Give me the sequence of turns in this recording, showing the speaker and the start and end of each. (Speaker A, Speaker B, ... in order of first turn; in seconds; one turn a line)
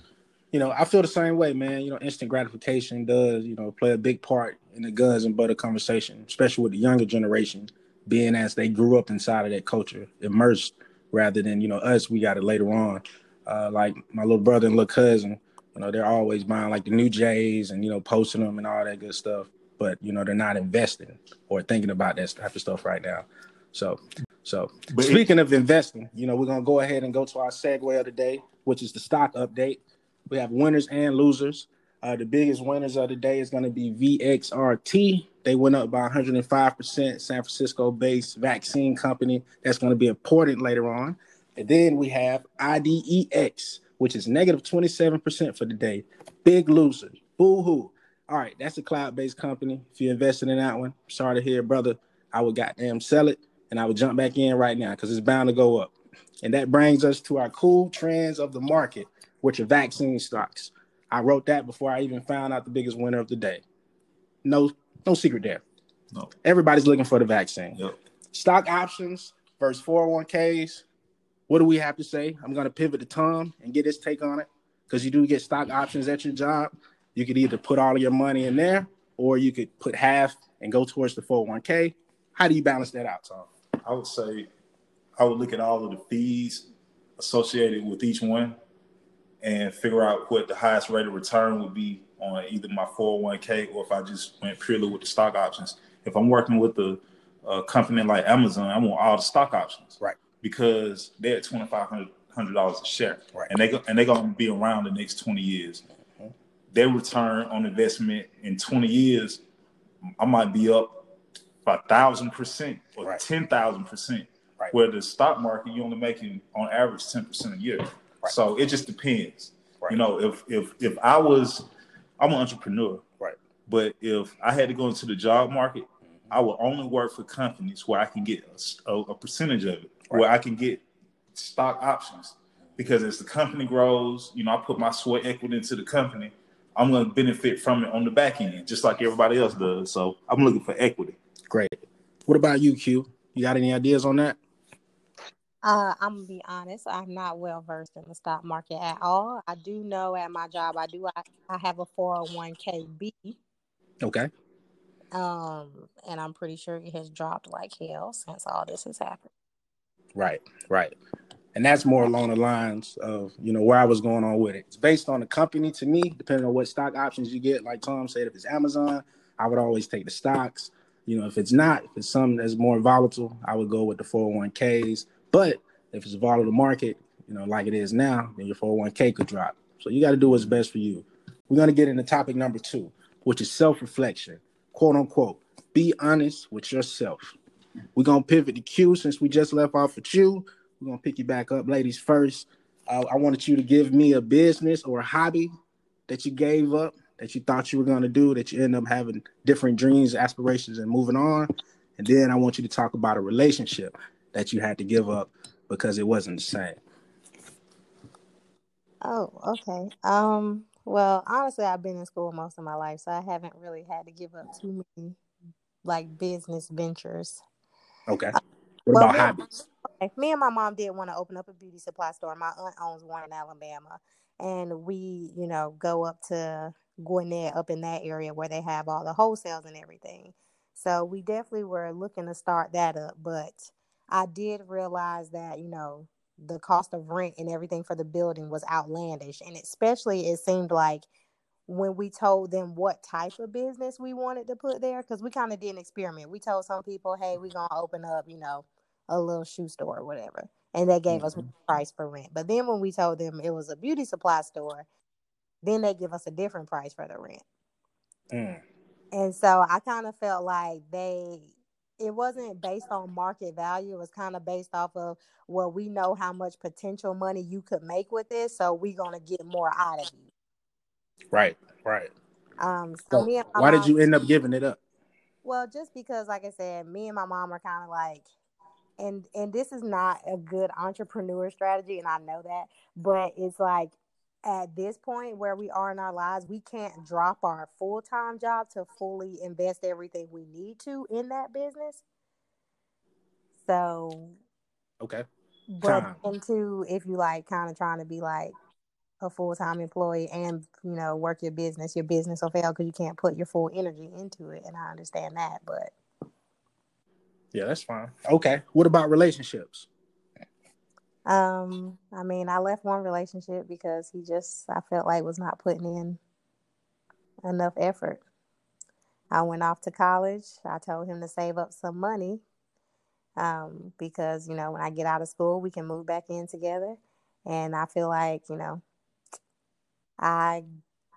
Speaker A: 0.5-63.6
Speaker B: 24.9-25.2
Speaker A: 64.4-65.6
Speaker A: 66.4-67.8
Speaker A: 68.3-70.8
Speaker A: 71.5-83.5
Speaker B: 83.8-84.5
Speaker B: 85.2-86.7
Speaker B: 87.2-88.5
Speaker B: 89.4-105.8
Speaker B: 106.7-109.4
Speaker B: 110.2-111.0
Speaker B: 111.7-121.7
Speaker B: 122.2-123.0
Speaker B: 123.7-130.8
Speaker B: 131.3-141.2
Speaker A: 141.5-144.4
Speaker C: 145.6-153.4
Speaker A: 154.0-154.3
Speaker C: 155.1-159.3
Speaker A: 160.2-160.9
Speaker A: 161.6-187.3
Speaker A: 188.0-195.5
Speaker A: 196.1-206.8
Speaker C: 209.0-215.2
Speaker C: 215.8-217.4
Speaker A: 218.1-218.4
Speaker A: 218.9-219.4
Speaker C: 218.9-241.1
Speaker C: 241.7-254.9
Speaker A: 251.1-251.4
Speaker C: 255.6-257.4
Speaker A: 258.3-258.6
Speaker C: 259.1-270.3
Speaker A: 271.3-272.1
Speaker C: 272.6-274.0
Speaker A: 273.1-274.8
Speaker C: 275.4-278.3
Speaker C: 279.0-292.0
Speaker C: 293.6-294.4
Speaker C: 295.7-298.6
Speaker A: 295.8-296.2
Speaker C: 299.2-305.9
Speaker A: 307.5-309.9
Speaker C: 311.3-316.2
Speaker C: 317.4-318.2
Speaker C: 319.3-322.4
Speaker C: 323.4-328.8
Speaker C: 330.2-330.6